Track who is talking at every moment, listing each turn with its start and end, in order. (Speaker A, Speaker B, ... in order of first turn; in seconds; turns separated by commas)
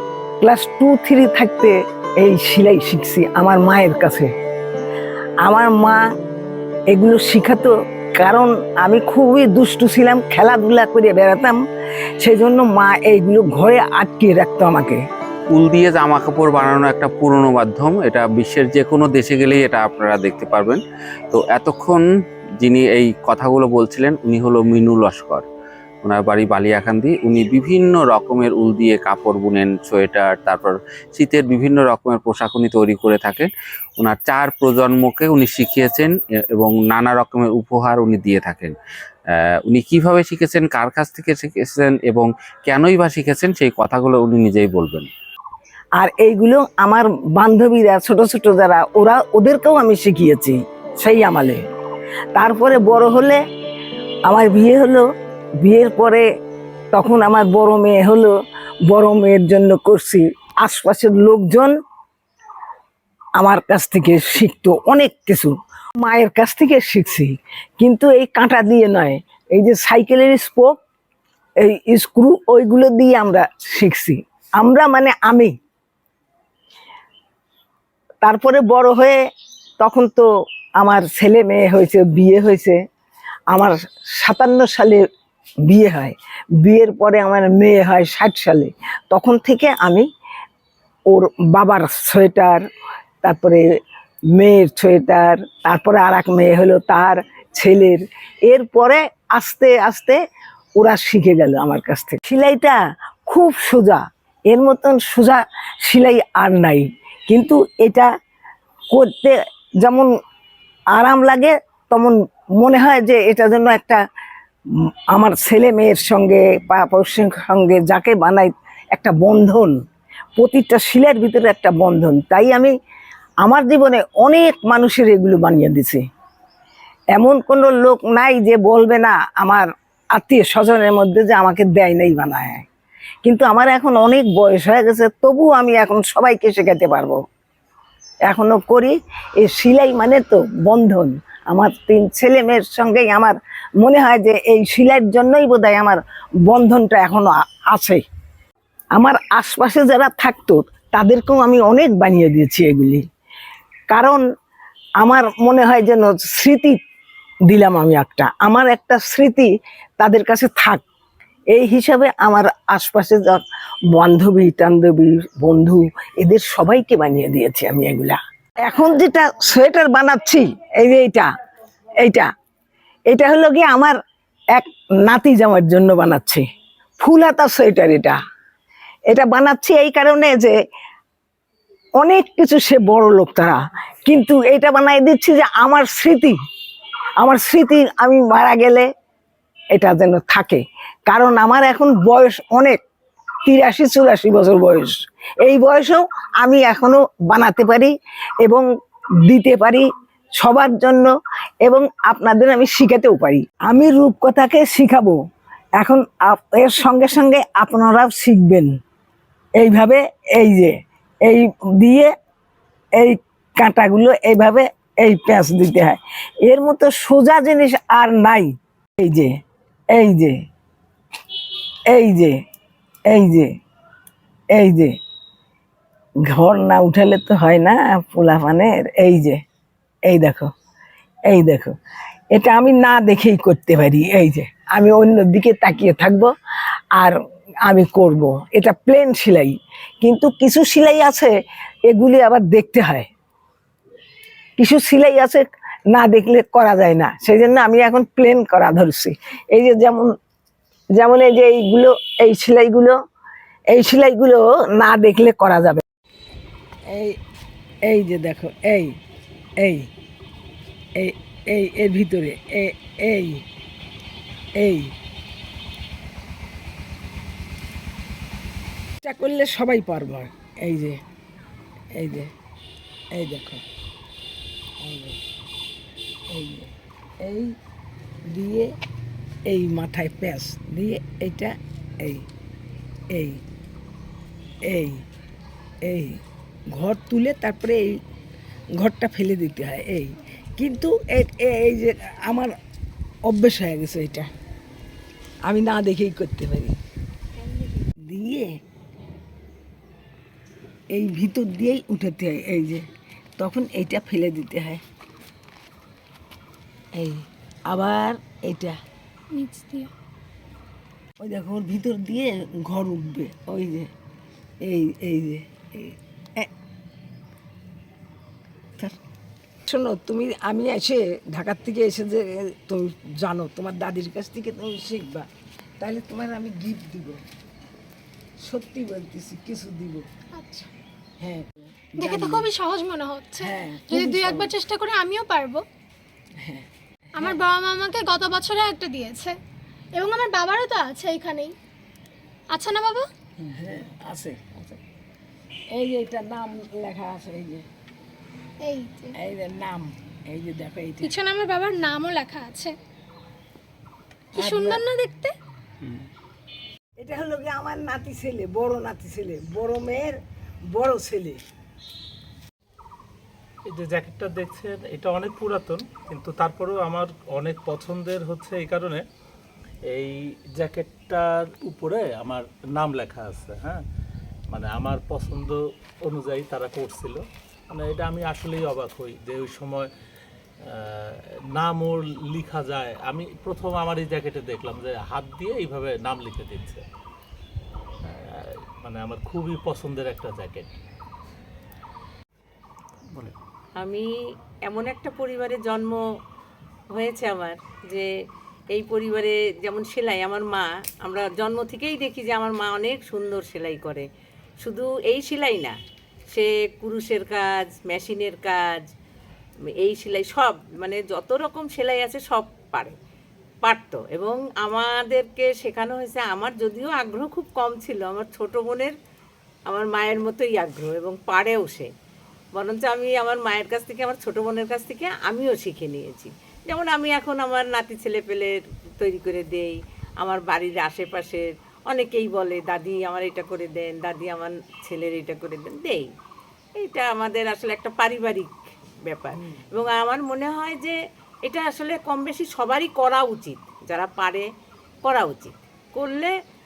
Speaker A: 0.4-4.3, Speaker A: 5.4-6.0, Speaker A: 6.9-11.6, Speaker A: 12.2-15.0, Speaker B: 15.5-22.0, Speaker B: 22.6-25.4, Speaker B: 26.0-38.8, Speaker B: 39.3-45.1, Speaker A: 46.0-51.6, Speaker A: 52.3-53.4, Speaker A: 54.3-55.0, Speaker A: 55.6-56.2, Speaker A: 56.9-58.3, Speaker A: 58.9-61.7, Speaker A: 63.4-70.7, Speaker A: 71.6-75.5, Speaker A: 78.2-79.2, Speaker A: 79.8-80.2, Speaker A: 80.8-82.8, Speaker A: 83.5-85.0, Speaker A: 85.7-90.0, Speaker A: 91.1-92.6, Speaker A: 93.2-93.6, Speaker A: 94.3-100.2, Speaker A: 100.8-108.1, Speaker A: 108.9-110.1, Speaker A: 110.9-114.0, Speaker A: 115.1-119.7, Speaker A: 120.4-122.7, Speaker A: 123.4-126.0, Speaker A: 127.1-129.7, Speaker A: 130.2-132.7, Speaker A: 133.2-137.2, Speaker A: 138.3-148.0, Speaker A: 148.9-153.0, Speaker A: 153.9-154.2, Speaker A: 155.0-156.8, Speaker A: 157.5-159.5, Speaker A: 160.0-160.8, Speaker A: 161.5-163.4, Speaker A: 163.9-171.3, Speaker A: 172.0-172.3, Speaker A: 173.1-173.9, Speaker A: 174.5-176.4, Speaker A: 177.0-178.2, Speaker A: 179.1-180.5, Speaker A: 182.0-186.3, Speaker A: 187.2-188.8, Speaker A: 189.7-192.8, Speaker A: 193.4-197.9, Speaker A: 199.2-199.8, Speaker A: 200.4-201.1, Speaker A: 201.6-205.2, Speaker A: 205.8-208.7, Speaker A: 209.6-210.7, Speaker A: 211.2-212.1, Speaker A: 213.0-219.3, Speaker A: 219.9-220.3, Speaker A: 221.9-222.4, Speaker A: 223.1-223.5, Speaker A: 224.6-224.9, Speaker A: 226.3-229.4, Speaker A: 230.1-230.5, Speaker A: 231.3-231.7, Speaker A: 232.3-236.3, Speaker A: 237.0-241.3, Speaker A: 241.9-243.1, Speaker A: 244.6-250.1, Speaker A: 251.0-252.9, Speaker A: 253.7-255.8, Speaker A: 256.9-257.1, Speaker A: 257.9-258.9, Speaker A: 259.6-259.9, Speaker A: 261.0-263.4, Speaker A: 264.6-264.9, Speaker A: 269.0-271.0, Speaker A: 271.9-272.3, Speaker A: 273.1-273.6, Speaker A: 274.8-275.2, Speaker A: 276.3-276.7, Speaker A: 277.2-277.5, Speaker A: 278.3-278.7, Speaker A: 279.5-282.2, Speaker A: 283.1-283.4, Speaker A: 284.7-285.0, Speaker A: 285.9-286.2, Speaker A: 286.7-288.0, Speaker A: 288.8-292.5, Speaker A: 293.3-294.3, Speaker A: 295.4-296.8, Speaker A: 298.1-298.5, Speaker A: 300.9-302.8, Speaker A: 303.4-304.8, Speaker A: 306.9-308.8, Speaker C: 309.4-309.9, Speaker A: 311.2-313.9, Speaker A: 314.6-316.5, Speaker A: 319.7-325.3, Speaker A: 325.8-327.2, Speaker A: 328.4-330.0, Speaker C: 330.4-330.7, Speaker A: 331.2-332.5, Speaker C: 332.0-335.6, Speaker A: 333.4-334.5, Speaker C: 337.2-339.3, Speaker C: 340.0-341.5, Speaker C: 342.6-343.0, Speaker A: 343.5-344.8, Speaker A: 345.7-347.6, Speaker C: 348.7-349.1, Speaker A: 349.2-351.1, Speaker C: 351.1-352.7, Speaker A: 354.3-354.9, Speaker C: 354.4-355.3, Speaker A: 357.0-360.1, Speaker A: 360.7-361.4, Speaker D: 363.6-369.0, Speaker D: 369.9-373.8, Speaker D: 374.5-379.9, Speaker D: 380.6-386.9, Speaker D: 388.0-390.7, Speaker D: 393.1-393.3, Speaker E: 393.8-394.1, Speaker E: 394.6-396.0, Speaker E: 396.9-398.1, Speaker E: 398.7-404.0, Speaker E: 404.6-405.7, Speaker E: 406.3-408.8, Speaker E: 409.8-412.9, Speaker E: 413.6-418.9, Speaker E: 419.7-421.9, Speaker E: 422.6-436.1, Speaker E: 436.8-438.5, Speaker E: 439.1-444.4, Speaker E: 445.0-446.3